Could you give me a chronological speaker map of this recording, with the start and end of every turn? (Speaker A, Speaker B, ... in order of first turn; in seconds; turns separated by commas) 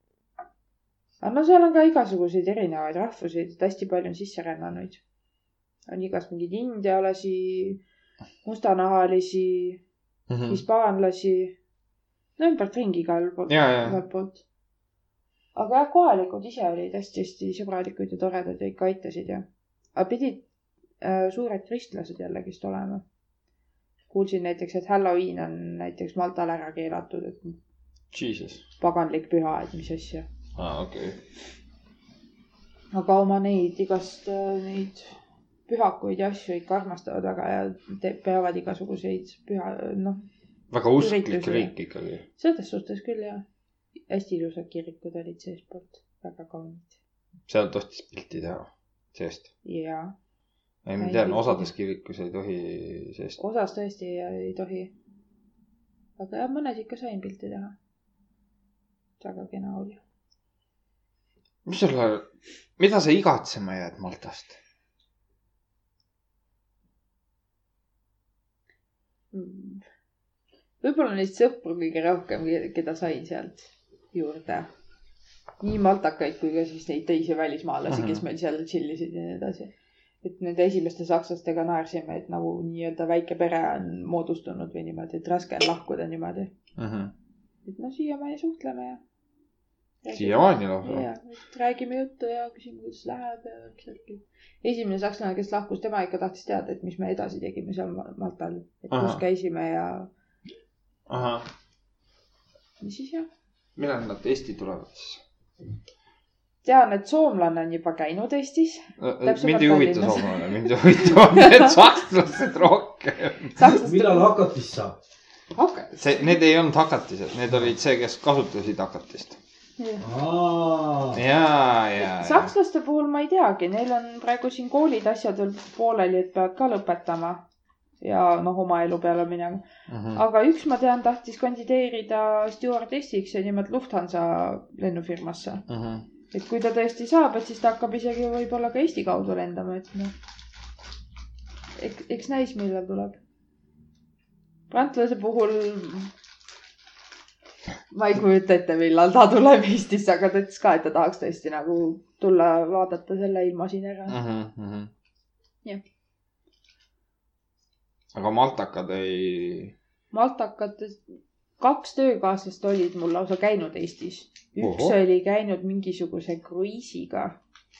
Speaker A: 1.2-5.0, Speaker A: 5.9-7.8, Speaker A: 8.4-9.8, Speaker B: 10.3-10.6, Speaker A: 10.5-11.6, Speaker A: 12.4-14.4, Speaker B: 13.5-14.0, Speaker A: 15.6-20.4, Speaker A: 21.0-23.0, Speaker A: 24.1-27.6, Speaker B: 28.1-28.6, Speaker A: 28.8-30.3, Speaker B: 30.6-31.2, Speaker A: 32.9-40.2, Speaker B: 40.7-42.2, Speaker A: 41.0-41.7, Speaker A: 42.4-43.4, Speaker A: 44.1-47.0, Speaker B: 47.5-49.5, Speaker A: 49.6-50.1, Speaker B: 50.9-53.4, Speaker A: 51.0-51.7, Speaker A: 53.4-54.9, Speaker A: 56.2-57.7, Speaker A: 59.2-60.0, Speaker B: 61.7-64.6, Speaker A: 69.3-69.8, Speaker A: 70.8-74.7, Speaker A: 75.6-79.7, Speaker B: 77.9-78.2, Speaker A: 80.2-86.5, Speaker B: 86.8-87.1, Speaker A: 87.7-89.0, Speaker A: 90.0-100.1, Speaker B: 90.1-91.1, Speaker B: 98.9-99.2, Speaker B: 101.1-101.5, Speaker A: 102.8-103.3, Speaker B: 103.8-105.2, Speaker A: 106.6-110.8, Speaker B: 109.0-113.8, Speaker A: 113.6-114.3, Speaker C: 113.8-115.0, Speaker A: 115.5-116.2, Speaker B: 116.0-119.4, Speaker A: 119.8-120.0, Speaker C: 120.0-121.2, Speaker B: 121.1-122.5, Speaker A: 122.0-127.5, Speaker A: 128.0-129.6, Speaker B: 129.9-130.2, Speaker A: 130.2-135.7, Speaker B: 135.7-136.1, Speaker A: 136.3-140.1, Speaker A: 141.8-143.2, Speaker A: 144.7-146.1, Speaker A: 147.9-154.2, Speaker B: 154.1-154.9, Speaker B: 158.2-159.7, Speaker A: 160.1-161.0, Speaker A: 161.6-167.4, Speaker B: 164.6-165.0